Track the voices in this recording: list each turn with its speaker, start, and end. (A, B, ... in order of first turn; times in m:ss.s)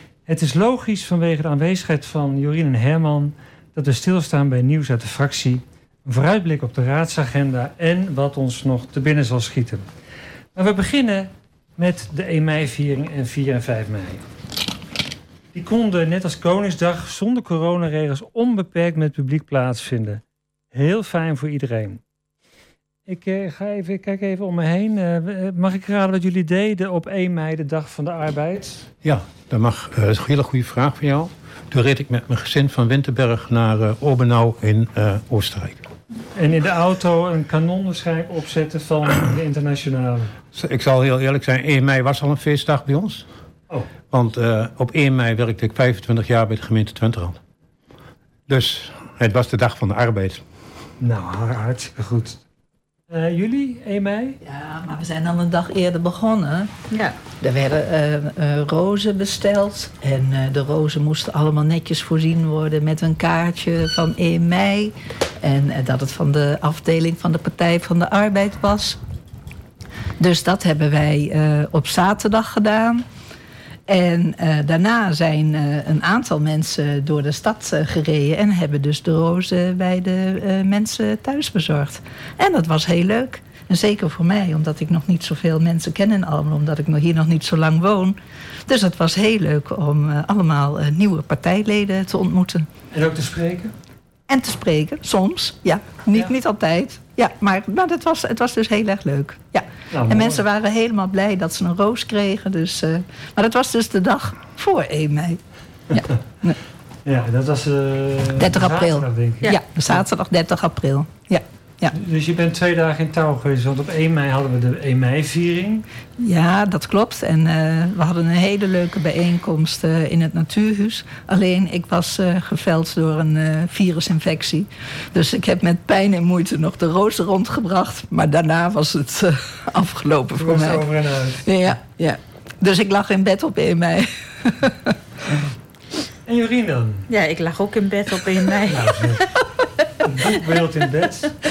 0:00.3-0:09.8 A
0:10.5-0:14.2 A
0:15.5-0:20.2 A
0:20.7-0:22.0 A
0:23.1-0:28.9 A
0:29.0-0:35.8 B
0:36.3-0:40.3 A
0:40.5-0:43.2 B
0:44.1-0:47.4 B
0:48.5-0:50.4 B
0:51.0-0:52.4 A
0:53.1-0:54.4 A
0:54.4-0:56.7 C
0:56.9-0:57.2 D
0:57.4-1:09.0 C
1:10.2-1:13.0 C
1:13.9-1:32.7 C
1:32.9-1:33.7 A
1:34.3-1:45.4 C
1:39.9-1:40.4 A
1:45.9-1:46.6 C
1:47.0-1:50.0 A
1:48.4-1:51.9 C
1:51.9-1:55.8 A
1:56.2-2:10.9 C
2:10.4-2:11.7 A
2:11.4-2:14.9 C
2:16.3-2:17.0 A
2:17.1-2:19.2 D
2:18.7-2:19.3 A
2:20.0-2:21.3 A